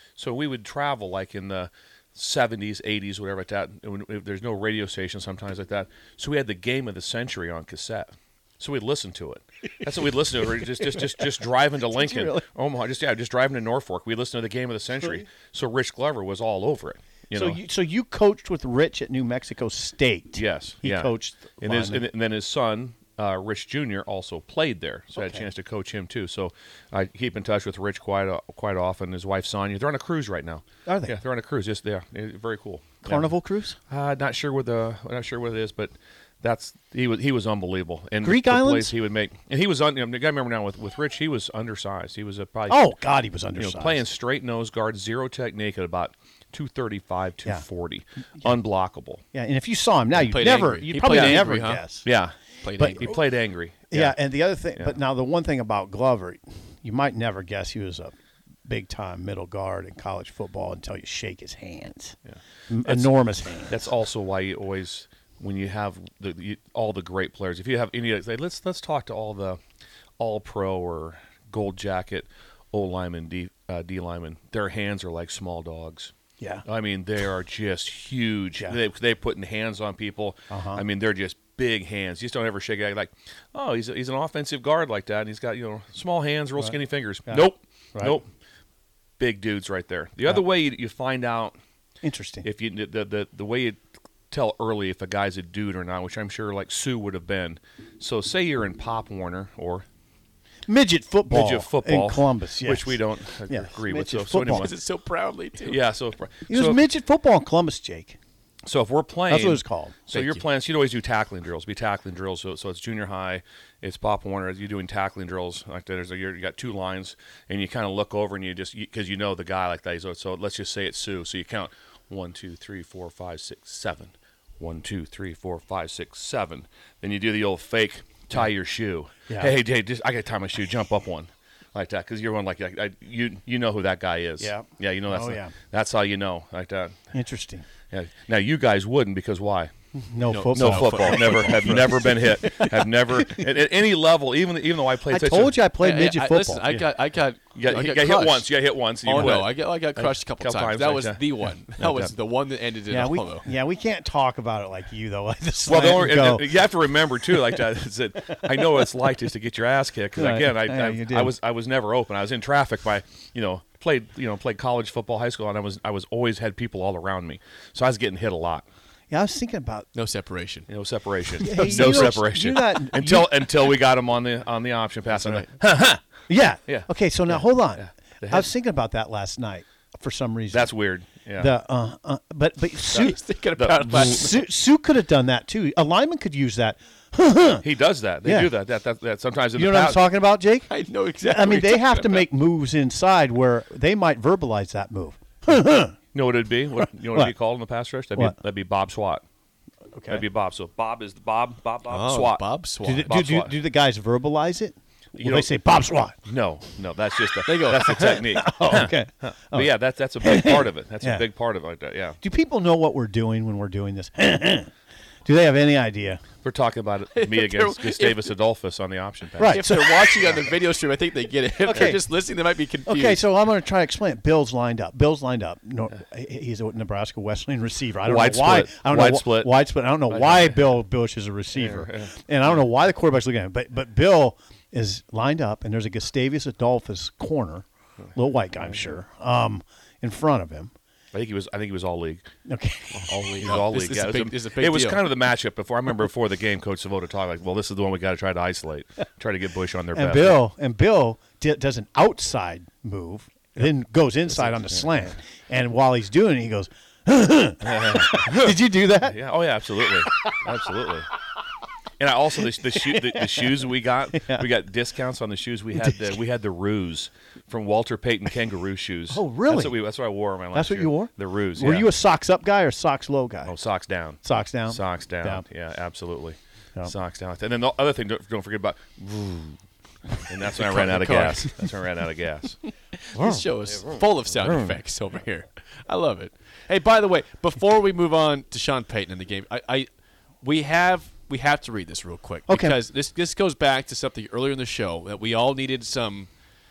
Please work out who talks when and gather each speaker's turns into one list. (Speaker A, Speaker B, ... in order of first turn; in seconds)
Speaker A: 0.2-17.6, 20.4-33.3, 33.9-42.8, 43.6-49.2, 51.1-51.5, 52.0-52.4, 53.0-54.2, 62.3-63.1, 63.7-69.6, 70.2-76.1, 76.7-88.3, 89.2-91.6, 92.4-99.9, 101.3-104.7, 105.6-106.8, 108.7-137.0, 137.9-139.7, 140.5-145.6, 147.6-152.1, 155.7-168.7, 170.7-176.0, 176.7-178.5, 180.5-181.5, 182.9-184.1, 187.6-190.0, 196.1-199.2, 200.1-202.4, 203.1-203.6, 205.2-205.5, 206.2-212.2, 216.4-219.7, 228.0-229.5, 230.1-230.7, 231.6-232.1, 238.6-239.0, 241.1-242.3, 243.1-250.4, 254.5-254.8, 257.6-261.1, 262.0-271.9, 273.5-279.6, 280.2-282.6, 283.2-284.8
Speaker B: 11.9-12.4, 17.4-22.0, 25.2-25.4, 30.9-31.2, 33.0-33.8, 38.2-38.9, 42.7-44.0, 49.3-52.1, 52.8-53.2, 53.9-62.2, 62.7-63.9, 76.4-76.7, 80.5-80.8, 87.3-88.2, 92.0-92.5, 100.7-104.7, 106.5-108.2, 109.3-110.4, 129.3-129.6, 134.4-135.6, 137.1-137.7, 139.9-143.5, 145.1-146.7, 152.9-156.5, 157.2-157.6, 158.3-158.8, 160.2-161.3, 169.1-169.9, 171.4-173.4, 176.3-180.7, 181.4-183.2, 183.9-187.7, 188.2-188.5, 189.6-190.7, 191.3-196.0, 199.9-200.2, 202.8-206.2, 207.8-211.2, 212.2-214.7, 215.2-216.2, 219.4-220.4, 221.6-222.0, 222.9-240.7, 242.5-243.1, 249.9-259.2, 259.9-260.3, 262.7-263.5, 264.1-264.5, 269.1-269.8, 270.5-273.5, 274.2-275.4, 292.5-292.8
Speaker C: 50.1-51.8, 52.6-53.2, 104.5-105.8, 140.3-142.0, 145.8-148.5, 149.0-153.5, 169.9-170.7, 171.4-172.1, 175.2-175.5, 182.9-184.4, 190.7-192.2, 201.9-203.2, 207.5-208.2, 217.2-218.3, 219.4-223.2, 243.1-245.1, 280.6-281.6, 283.0-289.9, 290.4-296.3